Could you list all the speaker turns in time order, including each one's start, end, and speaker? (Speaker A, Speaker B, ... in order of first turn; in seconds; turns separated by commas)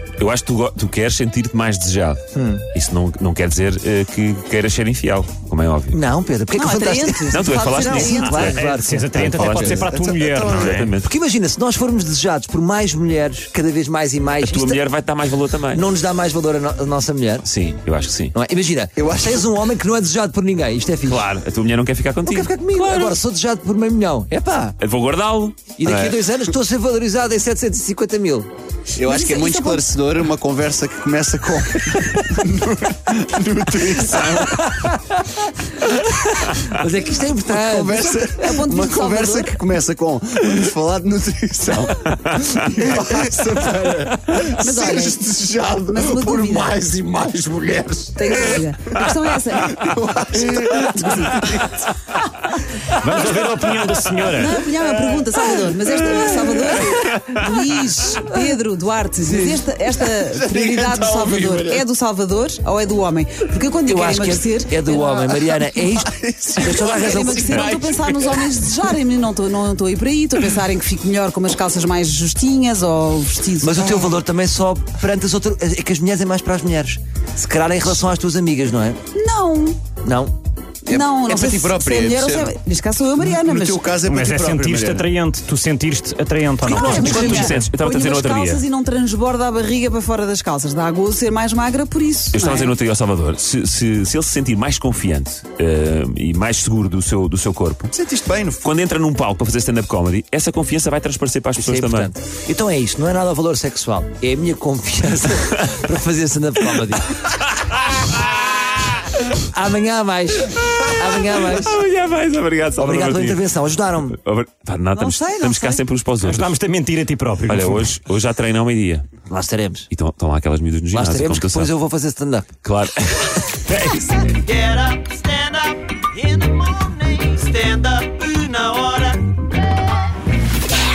Speaker A: 0.2-2.2, Speaker B: 2.3-2.6, Speaker A: 2.7-6.0, Speaker B: 5.9-9.3, Speaker C: 6.5-8.6, Speaker A: 7.3-9.9, Speaker D: 8.4-10.9, Speaker E: 9.3-10.8, Speaker A: 10.4-11.1, Speaker B: 11.0-14.8, Speaker A: 14.4-15.8, Speaker B: 15.7-17.5, Speaker A: 17.4-18.3, Speaker B: 18.3-21.3, Speaker E: 19.0-19.5, Speaker A: 21.0-23.2, Speaker B: 22.2-24.8, Speaker A: 24.8-26.2, Speaker B: 25.8-28.5, Speaker E: 28.9-34.8, Speaker C: 29.0-29.9, Speaker B: 34.7-35.1, Speaker B: 36.0-38.2, Speaker E: 37.4-52.1, Speaker C: 38.2-39.6, Speaker C: 44.6-45.1, Speaker C: 45.9-46.8, Speaker C: 48.1-49.8, Speaker C: 50.9-51.5, Speaker D: 53.0-54.6, Speaker C: 54.3-65.4, Speaker E: 54.7-56.4, Speaker B: 59.3-59.6, Speaker E: 59.9-61.8, Speaker B: 63.9-67.7, Speaker E: 65.5-68.6, Speaker C: 66.6-74.2, Speaker B: 73.6-79.0, Speaker C: 79.1-79.8, Speaker B: 80.0-80.3, Speaker E: 80.8-82.5, Speaker C: 80.9-83.8, Speaker E: 83.2-85.1, Speaker D: 84.0-87.7, Speaker C: 86.6-92.7, Speaker A: 86.7-88.6, Speaker A: 92.3-97.9, Speaker E: 97.9-98.7, Speaker A: 98.6-102.1, Speaker B: 101.6-107.2, Speaker B: 109.3-111.8, Speaker A: 111.5-113.5, Speaker B: 112.8-114.2, Speaker A: 114.0-116.5, Speaker C: 114.9-115.8, Speaker D: 116.2-117.9, Speaker A: 117.5-119.1, Speaker B: 119.3-119.9, Speaker A: 119.9-121.7, Speaker B: 120.9-122.5, Speaker A: 122.6-124.3, Speaker F: 124.4-129.2